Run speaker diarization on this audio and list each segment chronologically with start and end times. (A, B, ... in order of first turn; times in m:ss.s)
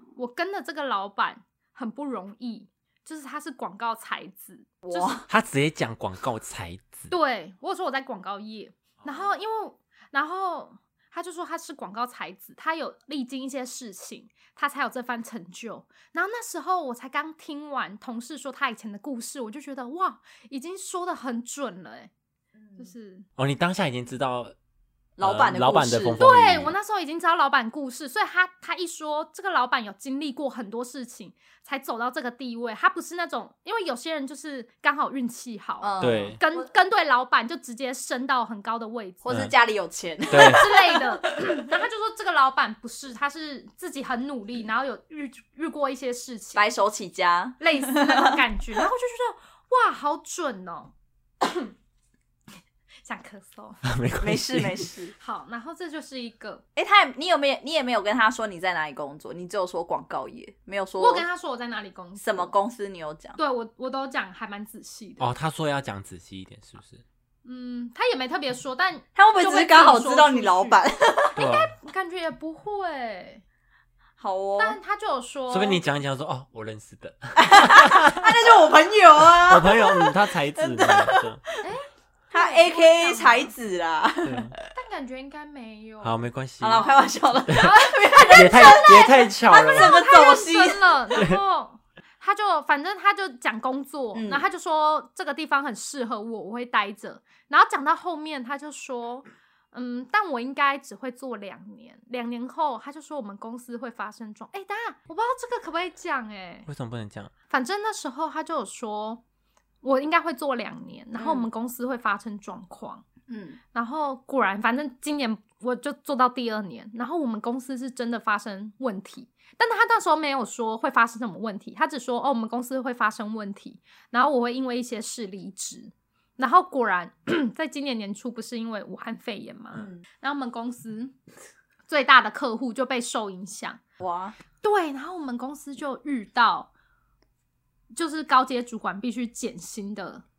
0:00.2-0:05.2 A
0:04.8-0:05.2 B
0:05.3-0:07.1 C
0:07.1-0:22.1 A
0:09.0-0:09.3 C
0:22.6-0:22.9 B
0:22.8-0:23.3 A
0:23.4-0:24.5 C
0:25.2-0:26.6 B
0:25.2-0:26.7 C
0:26.2-0:39.2 A
0:35.8-0:36.7 B
0:36.0-0:36.4 C
0:39.2-0:41.3 B
0:40.3-0:46.6 A
0:40.3-0:40.6 C
0:46.5-0:48.4 B
0:47.6-0:51.7 A
0:53.0-0:53.8 A
0:53.8-0:54.9 C
0:54.2-0:55.1 B
0:55.2-0:56.6 A
0:56.8-1:01.2 B
1:01.0-1:02.5 A
1:02.2-1:03.4 B
1:03.4-1:05.3 A
1:05.2-1:07.0 C
1:07.4-1:10.8 A
1:09.1-1:11.3 B
1:11.4-1:11.7 C
1:11.4-1:13.4 A
1:14.2-1:14.8 B
1:14.6-1:15.8 A
1:15.5-1:18.3 C
1:17.4-1:21.3 B
1:19.3-1:21.4 C
1:21.6-1:23.5 A
1:22.3-1:24.6 B
1:24.2-1:24.5 C
1:24.7-1:26.2 A
1:26.0-1:26.9 C
1:26.6-1:31.2 B
1:27.5-1:30.0 C
1:27.5-1:46.7 A
1:31.1-1:31.4 C
1:34.1-1:34.4 B
1:46.7-1:47.3 C
1:47.5-1:49.2 A
1:49.8-1:53.0 A
1:51.2-1:51.5 B
1:53.3-1:53.6 B
1:53.7-2:11.1 A
2:09.7-2:10.0 B
2:11.9-2:13.8 A
2:14.0-2:14.4 B
2:14.6-2:16.7 A
2:17.9-2:20.2 A